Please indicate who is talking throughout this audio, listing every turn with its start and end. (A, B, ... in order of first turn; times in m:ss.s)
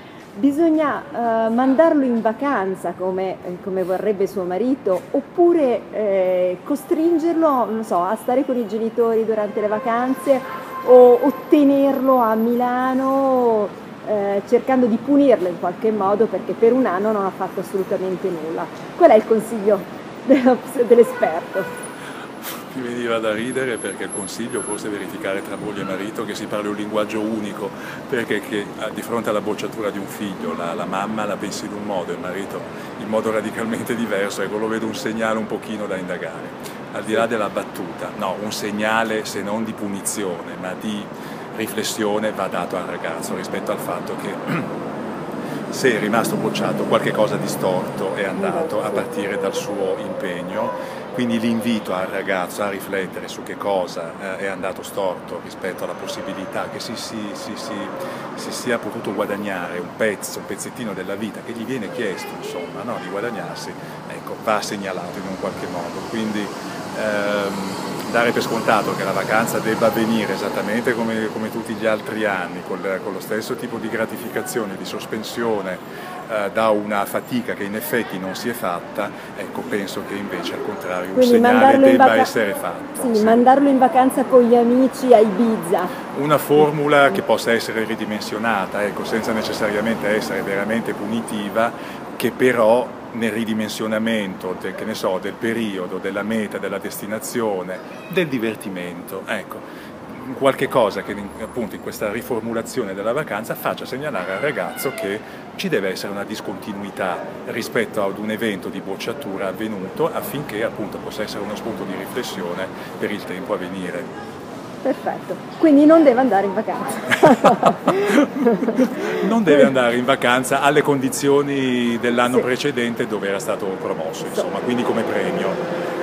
0:00.3-0:21.7 A
0:22.4-0:44.8 B
0:45.7-1:23.4 B
1:21.1-1:22.3 A
1:23.0-1:25.9 A
1:26.1-1:54.1 B
1:54.8-1:59.1 A
1:57.2-2:05.6 B